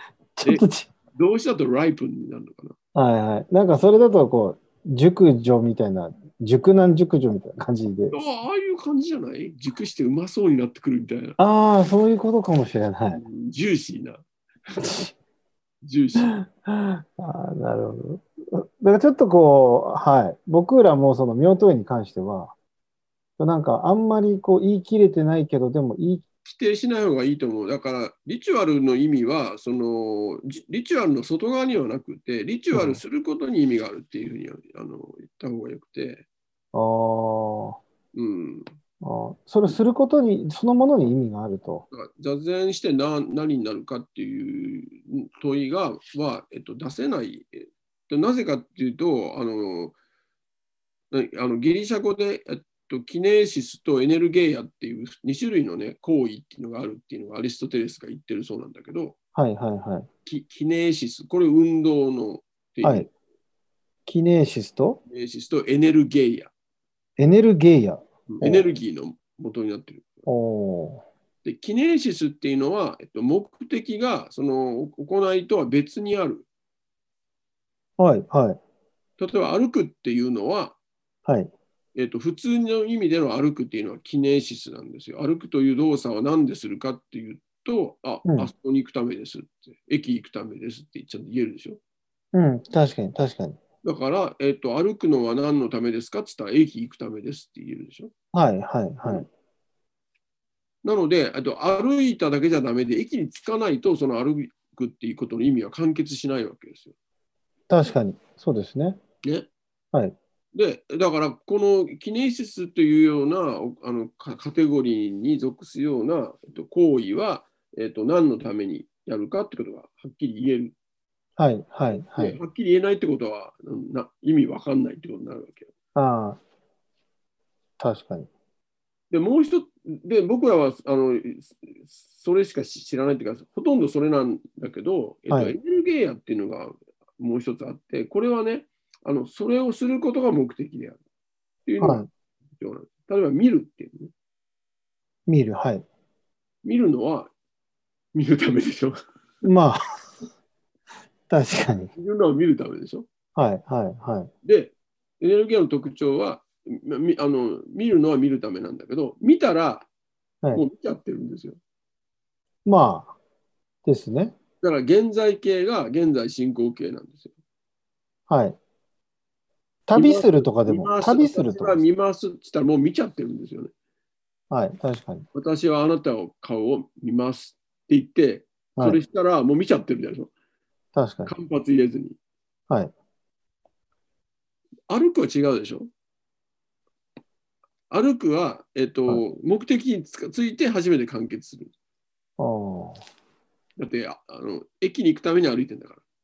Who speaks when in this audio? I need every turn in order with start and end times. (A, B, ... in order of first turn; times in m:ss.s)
0:00.4-0:00.9 A
0:01.2-0:02.8 B
0:03.0-0:08.2 A
0:08.1-0:11.4 B
0:11.4-0:13.2 A
0:13.1-0:15.1 B
0:14.8-0:15.0 A
0:15.8-0:16.4 B
0:16.2-0:22.5 A
0:23.4-0:26.2 A
0:26.4-0:36.2 B
0:32.7-0:33.0 A
0:36.7-0:37.8 A
0:38.1-0:38.7 B
0:39.0-0:41.8 A
0:41.9-0:50.0 B
0:51.1-0:59.2 B
0:59.4-1:00.1 A
1:00.2-1:03.1 B
1:02.8-1:03.1 A
1:04.1-1:05.0 A
1:05.1-1:06.5 B
1:07.2-1:08.7 A
1:08.3-1:10.1 B
1:10.3-1:11.0 A
1:11.4-1:16.5 B
1:18.0-1:18.6 A
1:19.2-1:20.8 B
1:21.3-1:21.5 A
1:22.0-1:31.8 B
1:28.2-1:28.5 A
1:32.3-1:33.6 A
1:33.8-1:38.1 B
1:38.3-1:39.3 A
1:40.8-1:46.9 B
1:47.7-1:49.0 A
1:49.2-1:49.5 B
1:50.5-2:00.8 B
2:01.4-2:02.4 A
2:02.1-2:05.7 B
2:06.0-2:06.4 A
2:07.8-2:08.3 A
2:09.1-2:21.0 B
2:15.3-2:15.6 A
2:21.6-2:24.1 B
2:21.8-2:22.1 A
2:25.3-2:25.9 A
2:26.6-2:27.3 B
2:28.1-2:29.0 B
2:29.4-2:29.8 A
2:31.3-2:31.9 A
2:32.0-2:33.1 B
2:33.4-2:34.3 A
2:34.4-2:39.9 B
2:40.5-2:41.6 B
2:42.6-2:43.2 A
2:43.8-2:44.4 A
2:44.6-2:47.3 B
2:48.3-2:48.6 A
2:49.9-2:51.8 A
2:49.9-2:53.7 B
2:54.5-2:55.2 A
2:55.3-3:00.3 B
3:01.0-3:01.3 A
3:01.3-3:02.2 B
3:04.9-3:05.9 B
3:07.9-3:11.7 B
3:12.4-3:13.0 A
3:13.8-3:16.0 B